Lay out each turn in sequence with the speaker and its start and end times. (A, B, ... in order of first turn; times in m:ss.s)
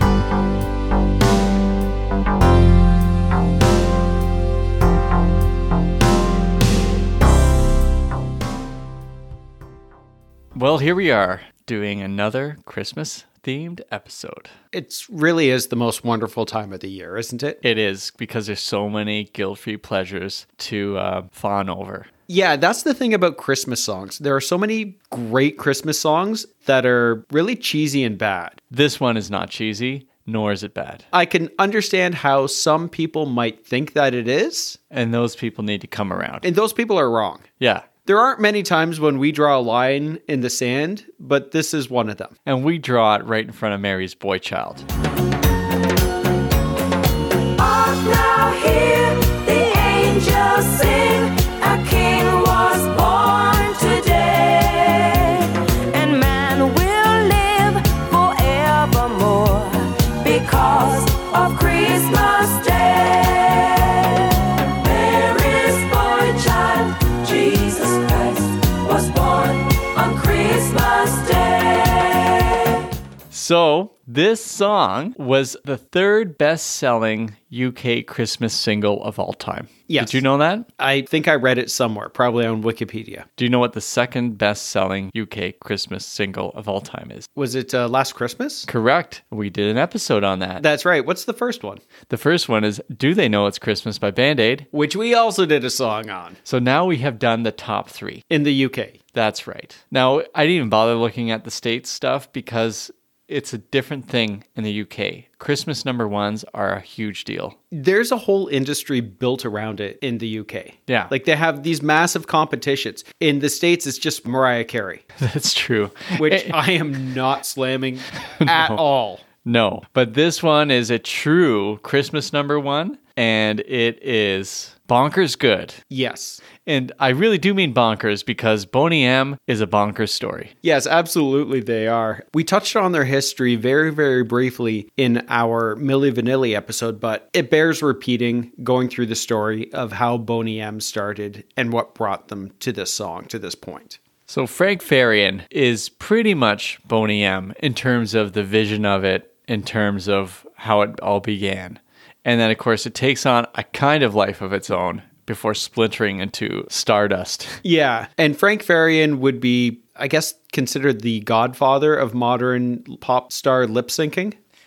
0:10.5-0:14.5 A
0:14.7-0:17.6 B
0:17.6-0:22.1 A
0:22.3-0:28.6 B
0:28.7-0:31.0 A
0:31.1-0:34.8 B
0:34.9-0:36.5 A
0:36.4-0:37.4 B
0:37.6-0:37.9 A
0:38.0-0:42.3 B
0:42.4-0:44.8 A
0:47.6-1:12.7 C
1:13.3-1:20.7 A
1:19.9-1:20.2 B
1:20.8-1:23.3 B
1:23.4-1:27.3 A
1:27.3-1:28.7 B
1:28.7-1:30.6 A
1:30.6-1:31.8 B
1:32.1-1:34.7 A
1:34.7-1:36.4 B
1:36.4-1:38.2 A
1:38.3-1:39.0 B
1:39.1-1:47.6 A
1:47.7-1:55.0 B
1:50.9-1:51.1 A
1:55.2-1:56.6 A
1:56.1-1:59.2 B
1:58.4-1:58.8 A
1:59.4-2:05.8 A
2:05.9-2:06.4 B
2:06.6-2:10.5 A
2:10.6-2:24.0 B
2:24.3-2:37.6 A
2:37.6-2:44.4 B